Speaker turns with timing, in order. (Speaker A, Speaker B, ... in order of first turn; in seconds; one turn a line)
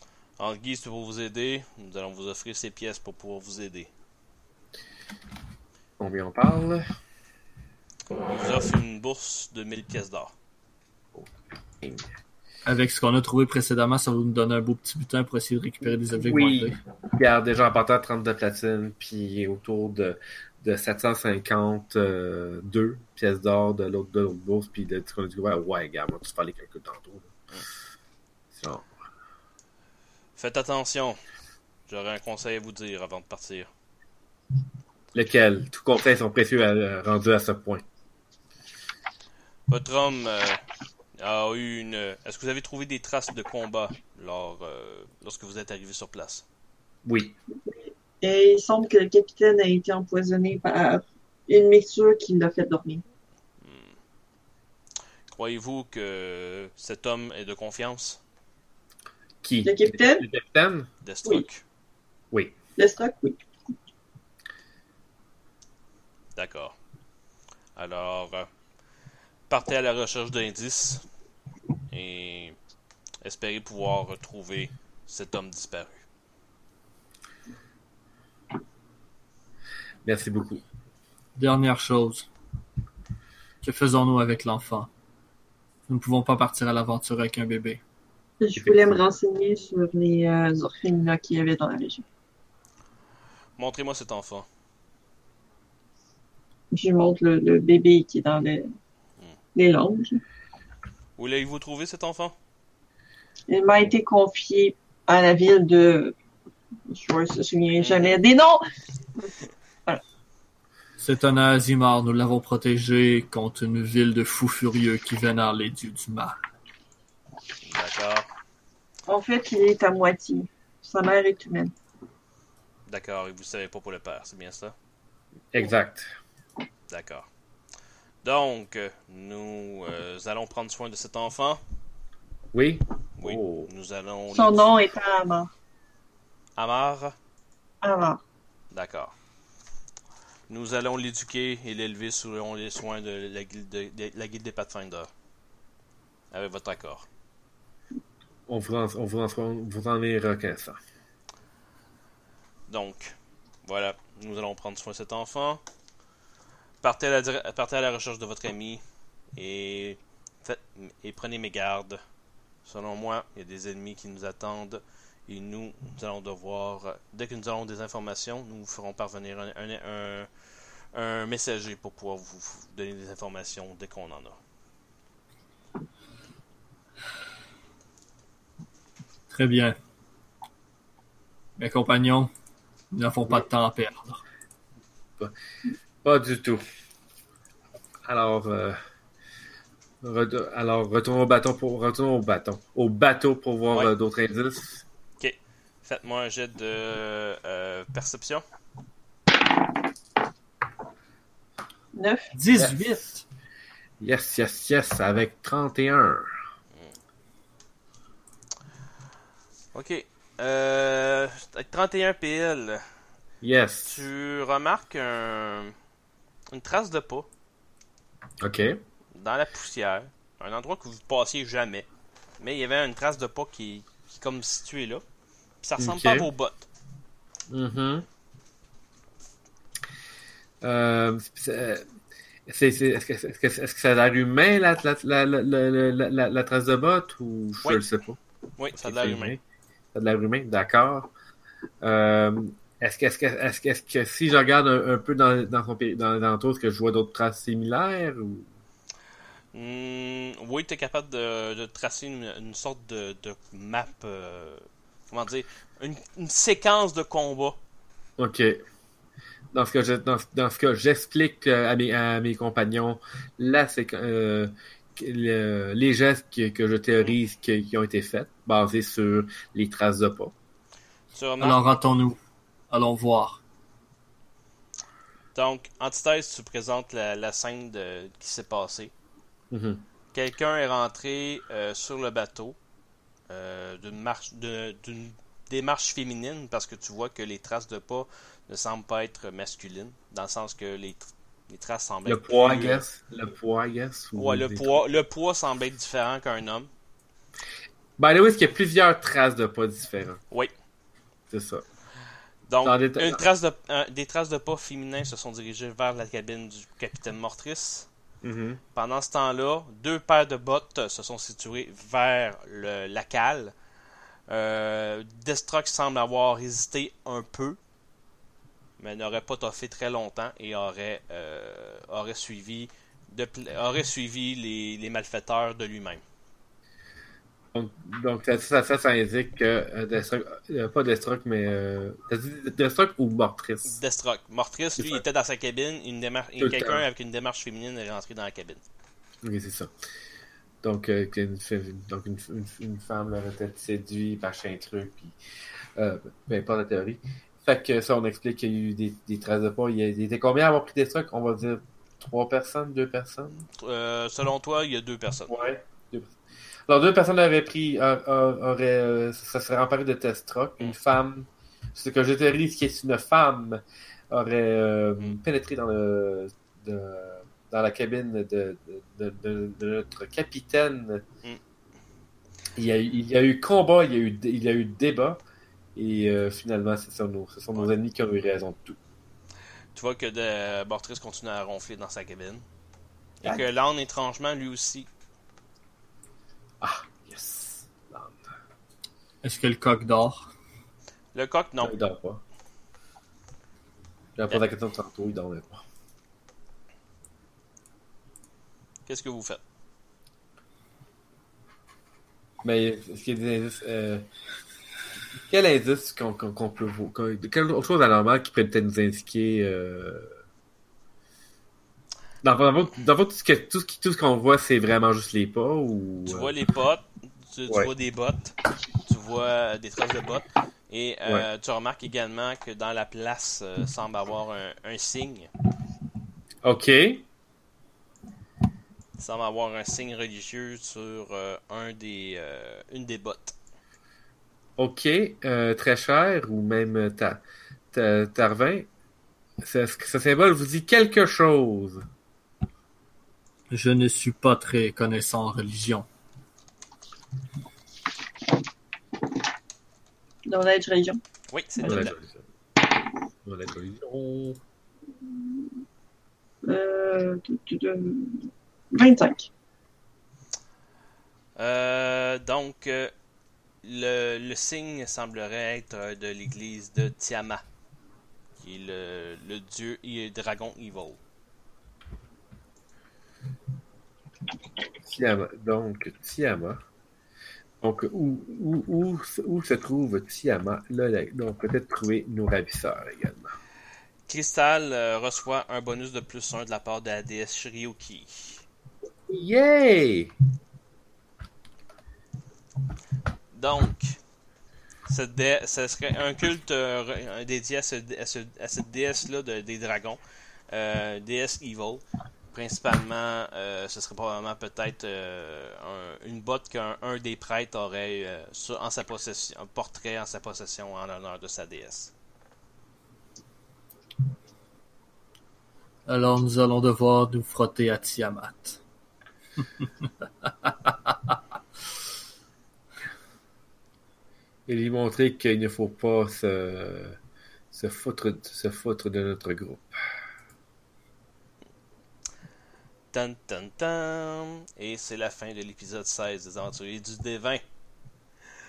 Speaker A: 0.4-3.9
Speaker B: 6.0-6.8
Speaker A: 8.3-10.3
Speaker B: 11.8-12.1
Speaker C: 12.6-16.8
Speaker B: 16.2-27.3
Speaker B: 28.5-28.9
Speaker A: 30.4-31.2
Speaker A: 31.9-33.7
Speaker B: 35.1-37.8
Speaker A: 39.7-40.6
Speaker A: 41.2-46.4
Speaker B: 47.0-47.3
Speaker D: 47.6-53.0
Speaker A: 53.6-54.0
Speaker A: 55.3-58.2
Speaker B: 59.4-60.9
Speaker D: 59.6-60.2
Speaker A: 61.0-61.6
Speaker D: 62.8-63.4
Speaker A: 66.3-66.7
Speaker A: 67.8-68.5
Speaker A: 69.5-71.0
Speaker A: 71.9-72.6
Speaker A: 73.2-76.0
Speaker B: 80.0-80.6
Speaker C: 81.3-82.3
Speaker C: 83.6-84.9
Speaker C: 85.9-87.8
Speaker D: 88.4-92.0
Speaker B: 88.5-89.0
Speaker A: 93.6-94.5
Speaker D: 96.7-98.7
Speaker D: 99.5-100.2
Speaker A: 101.2-102.3
Speaker D: 103.5-106.1
Speaker D: 106.9-108.6
Speaker A: 107.8-108.2
Speaker C: 111.0-116.3
Speaker A: 117.6-118.3
Speaker D: 119.1-121.7
Speaker A: 122.9-124.7
Speaker B: 125.5-126.1
Speaker A: 126.9-127.3
Speaker A: 128.2-131.6
Speaker B: 132.5-133.7
Speaker A: 133.2-134.7
Speaker D: 134.3-135.5
Speaker A: 136.6-137.2
Speaker D: 137.8-138.2
Speaker A: 138.7-139.1
Speaker A: 140.5-145.1
Speaker A: 146.3-147.1
Speaker B: 148.5-150.8
Speaker A: 152.7-155.6
Speaker A: 156.8-158.8
Speaker A: 159.3-162.0
Speaker A: 162.6-170.3
Speaker A: 170.9-174.4
Speaker C: 179.3-179.8
Speaker C: 181.6-182.3
Speaker C: 182.9-184.2
Speaker B: 186.0-186.6
Speaker B: 188.0-188.8
Speaker B: 190.0-194.8
Speaker A: 195.2-198.4
Speaker D: 201.9-202.3
Speaker C: 202.3-203.2
Speaker B: 202.5-202.9
Speaker B: 204.0-206.3
Speaker A: 209.7-212.8
Speaker B: 213.4-214.0
Speaker A: 213.8-215.7
Speaker A: 216.5-217.3
Speaker B: 218.4-218.8
Speaker A: 219.1-221.9
Speaker A: 222.4-225.0
Speaker A: 225.6-226.7
Speaker B: 225.8-226.3
Speaker B: 227.5-228.1
Speaker B: 230.6-231.8
Speaker B: 232.5-238.2
Speaker A: 238.6-239.4
Speaker B: 238.7-239.4
Speaker B: 239.9-241.1
Speaker B: 241.8-248.5
Speaker A: 249.5-257.6
Speaker B: 258.2-258.6
Speaker B: 259.5-270.3
Speaker A: 271.1-271.6
Speaker C: 271.4-272.2
Speaker C: 272.7-273.4
Speaker A: 275.3-278.9
Speaker B: 279.5-279.8
Speaker A: 280.1-282.6
Speaker A: 283.3-292.8
Speaker B: 292.1-294.8
Speaker A: 294.1-296.7
Speaker B: 298.0-300.2
Speaker B: 301.3-301.6
Speaker A: 302.5-307.9
Speaker B: 302.6-303.2
Speaker B: 308.2-308.6
Speaker A: 308.7-313.5
Speaker A: 314.3-317.6
Speaker A: 318.8-326.0
Speaker B: 327.5-333.8
Speaker A: 333.6-338.6
Speaker B: 336.4-336.8
Speaker B: 339.2-339.7
Speaker B: 340.6-345.2
Speaker B: 345.8-353.4
Speaker A: 353.5-355.3
Speaker B: 355.3-356.1
Speaker B: 356.7-371.0
Speaker B: 372.6-375.2
Speaker B: 375.7-378.8
Speaker A: 379.7-382.4
Speaker A: 383.2-384.9
Speaker B: 386.6-388.2
Speaker C: 389.2-390.2
Speaker A: 391.1-391.7
Speaker B: 391.6-392.2
Speaker B: 394.2-395.6
Speaker A: 398.9-399.4
Speaker B: 402.4-404.1
Speaker B: 405.3-410.1
Speaker B: 412.2-416.3
Speaker A: 416.1-425.3
Speaker B: 426.4-427.0
Speaker A: 429.0-433.4
Speaker B: 434.6-438.7
Speaker B: 439.4-441.8
Speaker C: 443.5-445.9
Speaker D: 450.2-451.0
Speaker A: 451.3-451.9
Speaker D: 451.6-451.8
Speaker B: 451.6-452.2
Speaker B: 453.2-454.4
Speaker D: 456.4-459.3
Speaker A: 461.4-462.9
Speaker A: 463.6-467.4
Speaker A: 468.4-471.0
Speaker B: 474.8-476.6
Speaker B: 477.6-483.3
Speaker A: 484.1-488.4
Speaker B: 489.1-490.1
Speaker A: 493.3-493.9
Speaker A: 494.9-511.9
Speaker C: 515.9-518.6
Speaker C: 520.5-521.1
Speaker B: 524.5-527.0
Speaker B: 527.5-529.7
Speaker A: 532.9-537.4